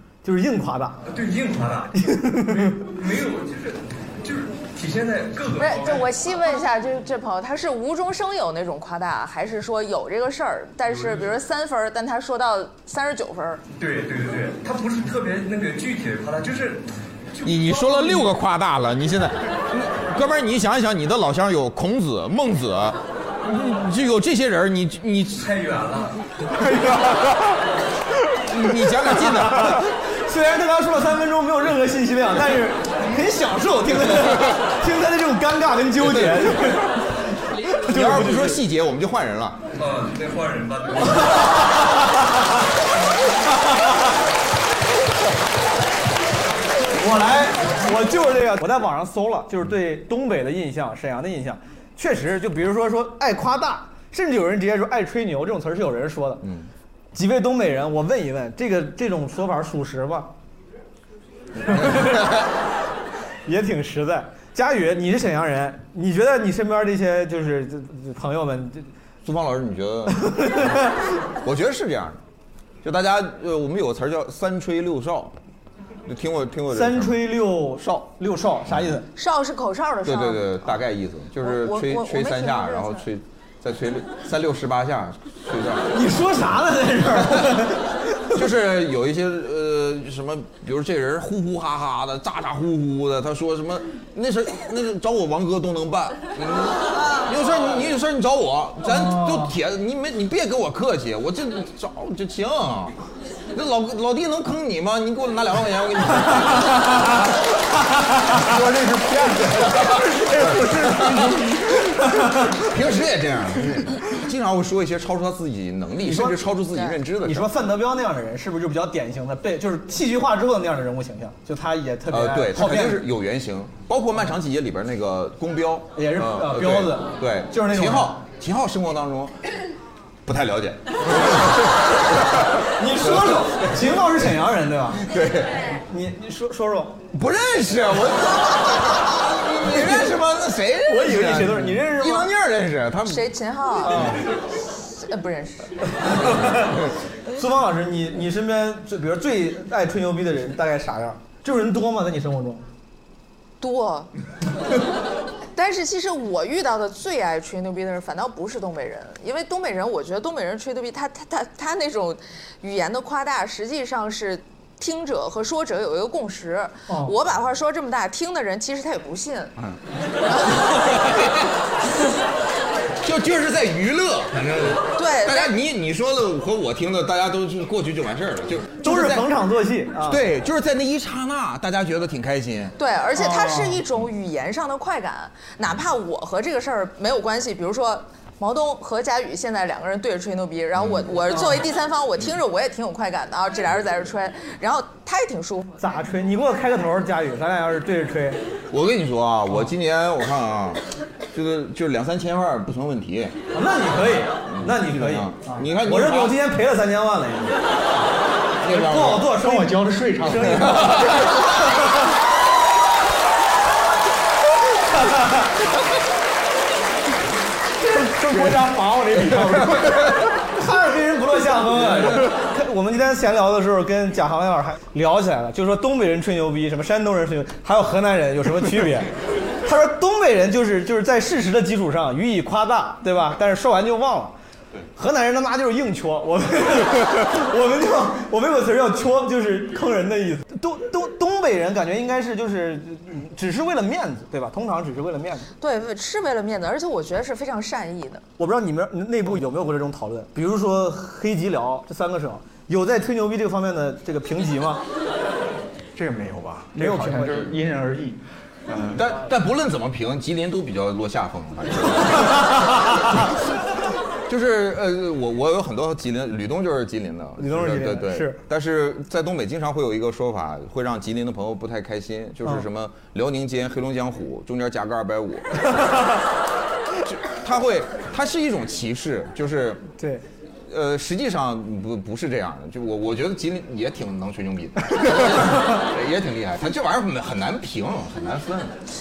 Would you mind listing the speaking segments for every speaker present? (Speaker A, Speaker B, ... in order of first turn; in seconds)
Speaker A: 0.2-1.0, 2.0-2.8, 26.6-27.0, 29.0-37.1, 37.7-38.6, 43.6-43.9, 46.9-56.4, 57.1-60.3, 61.7-62.3, 63.5-68.9, 70.2-70.9, 76.7-79.1, 85.9-88.3, 98.8-99.5, 109.5-112.5, 116.0-116.5, 117.2-123.0, 125.9-128.1, 132.8-135.0, 135.9-137.0, 139.7-140.1, 140.8-142.3, 143.8-144.2, 146.2-146.7, 147.3-152.6, 166.9-167.1, 178.8-180.2, 183.2-183.8, 195.8-198.4, 203.5-207.6, 208.7-211.2, 214.9-215.4, 217.8-229.1, 229.6-234.3, 234.9-245.5, 248.4-254.8, 256.7-257.5, 267.4-268.4
Speaker B: 1.1-6.1, 13.8-18.3, 25.4-26.1, 39.8-41.8
Speaker C: 5.6-13.6, 79.1-80.8, 81.4-83.0, 143.1-144.1, 144.8-145.9, 153.6-154.1, 155.5-169.5, 175.0-175.5, 182.8-195.7, 245.6-248.2
Speaker D: 17.4-25.4, 28.5-29.8, 37.9-39.6, 61.7-62.2, 69.2-70.8, 71.4-72.2, 72.8-75.3, 76.0-77.2, 80.0-85.9, 88.3-103.0, 103.5-107.0, 108.3-111.6, 112.3-117.5, 122.1-129.4, 130.2-131.7, 133.1-133.4, 135.1-135.6, 137.1-143.3, 173.0-179.3, 180.1-182.7, 190.8-191.0, 198.7-200.8, 201.3-203.3, 204.5-206.4, 208.6-209.4, 210.7-211.1, 258.9-263.1, 264.3-275.7, 277.0-279.8, 280.7-288.7
Speaker E: 209.5-210.5, 255.9-259.1